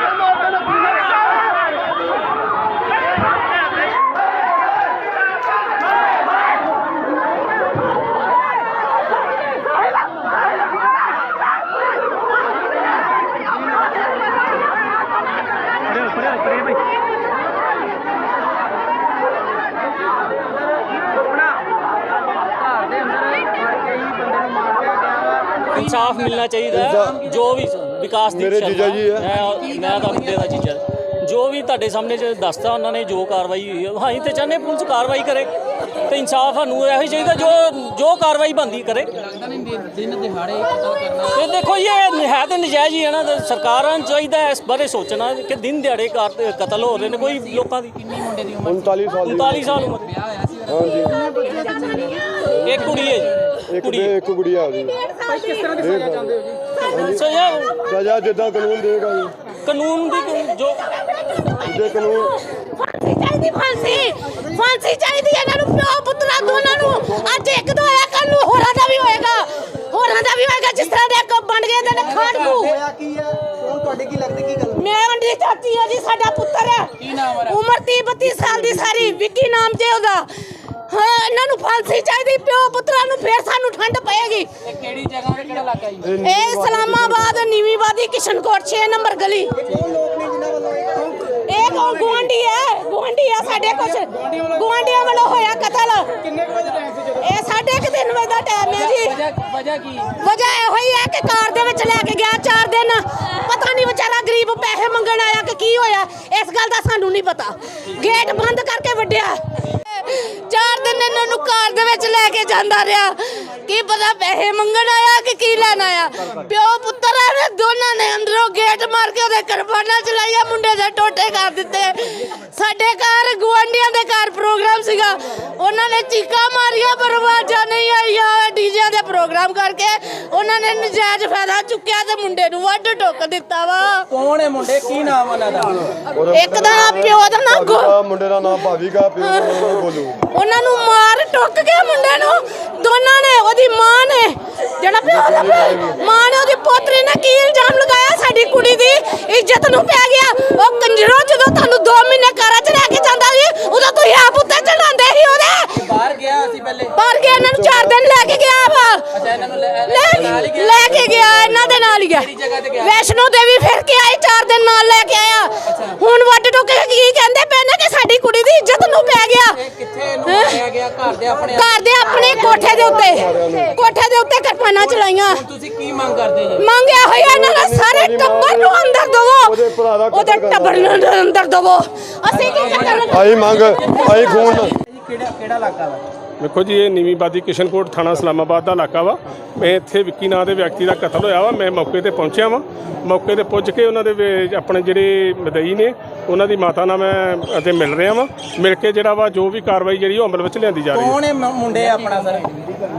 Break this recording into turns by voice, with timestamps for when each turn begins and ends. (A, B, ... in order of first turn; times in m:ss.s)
0:00.3-0:01.1 A
0:15.9-0:16.8 B
0:21.1-0:21.5 A
0:22.6-0:27.4 A
0:25.7-0:35.5 B
0:26.7-0:27.3 C
0:28.3-0:29.3 C
0:29.2-0:30.6 A
0:36.0-0:39.1 B
0:39.2-0:41.5 A
0:41.3-0:48.0 B
0:46.8-0:52.2 A
0:48.6-0:49.9 C
0:49.2-0:50.1 B
0:50.7-0:51.2 C
0:51.6-0:51.8 D
0:52.4-0:53.0 C
0:52.6-0:54.2 B
0:52.7-0:53.5 A
0:53.7-0:55.0 C
0:54.9-0:55.8 E
0:55.5-0:56.7 A
0:55.7-0:59.3 C
0:56.9-0:57.8 B
0:59.7-1:00.8 B
1:00.4-1:12.8 E
1:01.6-1:02.4 C
1:03.8-1:04.2 C
1:06.4-1:07.6 C
1:11.9-1:12.8 A
1:12.7-1:14.8 D
1:14.8-1:20.3 E
1:17.0-1:17.6 A
1:18.2-1:19.2 C
1:20.9-1:24.5 E
1:24.6-1:26.2 A
1:26.0-1:27.4 C
1:26.2-1:29.6 E
1:29.6-1:32.3 D
1:31.5-1:36.2 E
1:36.5-1:37.0 A
1:37.0-1:39.2 E
1:38.7-1:40.1 A
1:40.2-2:14.1 E
2:14.1-2:16.0 A
2:16.1-2:20.2 C
2:16.3-2:17.9 E
2:19.2-2:35.8 E
2:25.0-2:26.0 C
2:35.7-2:37.0 A
2:37.0-2:39.1 E
2:37.2-2:38.5 C
2:39.1-2:43.0 A
2:39.9-2:49.6 E
2:40.1-2:41.9 C
2:45.7-2:46.0 A
2:49.5-2:52.7 A
2:50.3-2:50.6 E
2:51.5-2:55.4 E
2:52.1-2:53.8 C
2:54.8-2:56.6 A
2:56.6-3:04.7 E
2:57.0-2:58.8 C
2:59.4-3:01.1 C
3:02.3-3:06.0 A
3:03.1-3:04.8 C
3:06.4-3:21.2 F
3:20.9-3:22.7 A